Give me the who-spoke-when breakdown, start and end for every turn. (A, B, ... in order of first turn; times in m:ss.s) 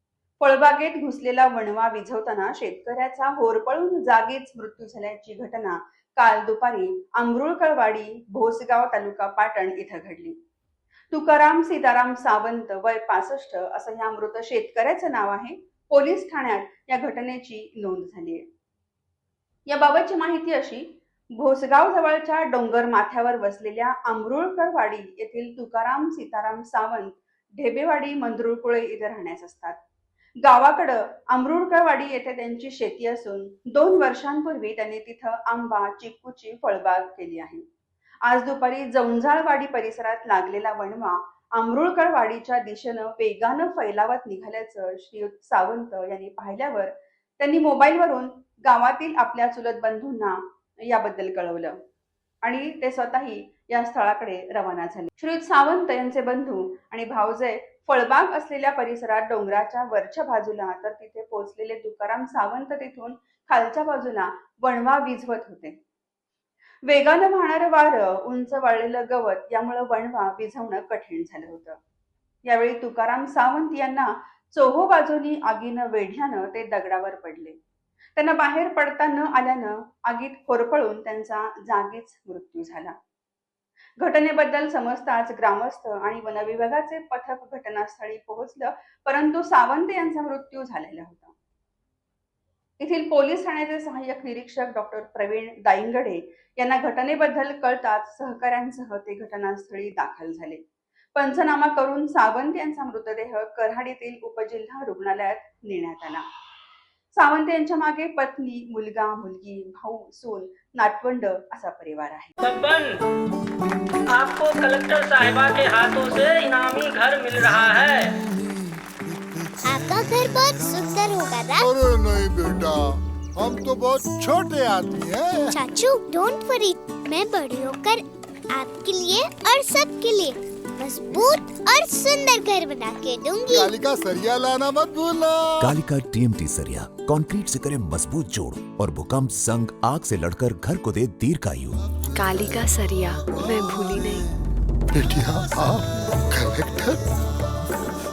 0:00.4-0:10.4 A
0:11.1-0:18.4 A
0:19.6-0:29.8 A
0:30.4-0:37.6 A
0:38.2-0:51.8 A
0:52.4-1:05.8 A
1:06.8-1:11.8 A
1:12.4-1:17.6 A
1:18.2-1:22.9 A
1:24.0-1:31.3 A
1:32.8-1:40.6 A
1:41.1-1:46.2 A
1:47.1-1:52.3 A
1:52.4-1:53.0 B
1:54.1-1:58.1 B
1:59.6-2:01.7 C
2:01.6-2:05.6 D
2:05.5-2:13.7 C
2:13.5-2:15.7 D
2:15.6-2:21.8 E
2:22.1-2:24.2 F
2:24.9-2:27.0 D